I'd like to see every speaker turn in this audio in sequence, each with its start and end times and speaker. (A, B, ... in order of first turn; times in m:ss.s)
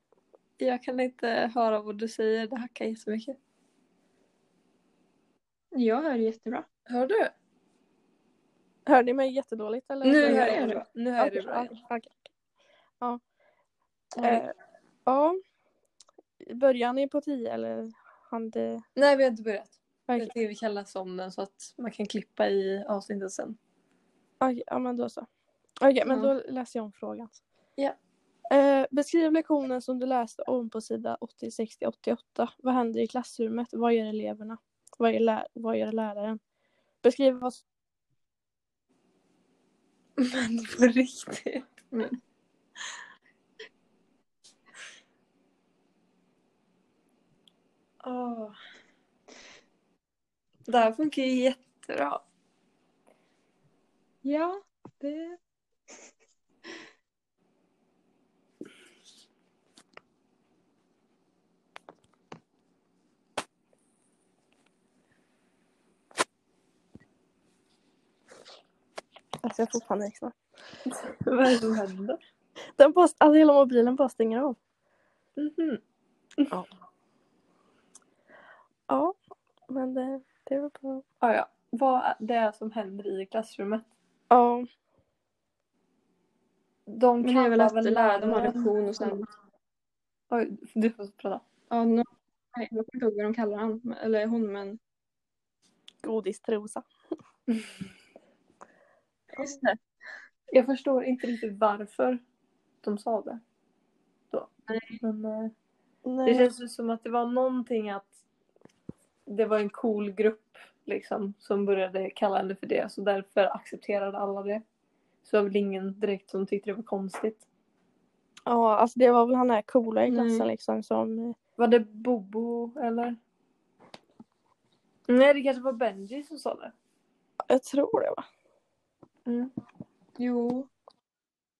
0:00.6-0:03.4 A
0:05.7-0:06.7 B
0:06.9-0:07.3 A
0:08.9-0:12.3 C
0:10.0-0:11.7 A
0:10.2-0:10.8 B
0:14.2-0:14.4 A
0:14.2-0:14.5 C
0:15.1-0:15.4 C
0:16.5-0:18.8 C
0:19.0-0:23.6 A
0:24.4-0:25.3 C
0:25.8-0:27.4 C
0:28.5-0:36.4 C
0:37.0-0:37.6 C
0:40.2-0:42.1 A
0:48.0-0:48.6 A
0:50.7-0:52.2 A
0:54.2-0:55.4 B
1:09.4-1:10.4 C
1:10.9-1:12.2 A
1:12.8-1:14.6 C
1:15.4-1:15.8 A
1:18.9-1:19.2 C
1:19.7-1:21.0 C
1:21.2-1:23.9 A
1:24.3-1:24.7 C
1:26.9-1:29.3 A
1:27.2-1:29.3 B
1:30.3-1:31.4 A
1:31.7-1:34.8 B
1:36.0-1:36.9 C
1:39.4-1:39.8 B
1:40.5-1:42.2 A
1:42.8-1:43.4 A
1:44.7-1:45.0 B
1:45.0-1:45.5 A
1:46.1-1:46.5 C
1:46.2-1:48.1 A
1:49.3-1:54.6 A
1:55.2-1:57.5 A
1:58.5-2:01.4 C
2:00.1-2:00.5 B
2:01.6-2:03.2 A
2:05.1-2:06.7 A
2:07.5-2:08.2 C
2:09.3-2:09.5 A
2:10.2-2:10.7 B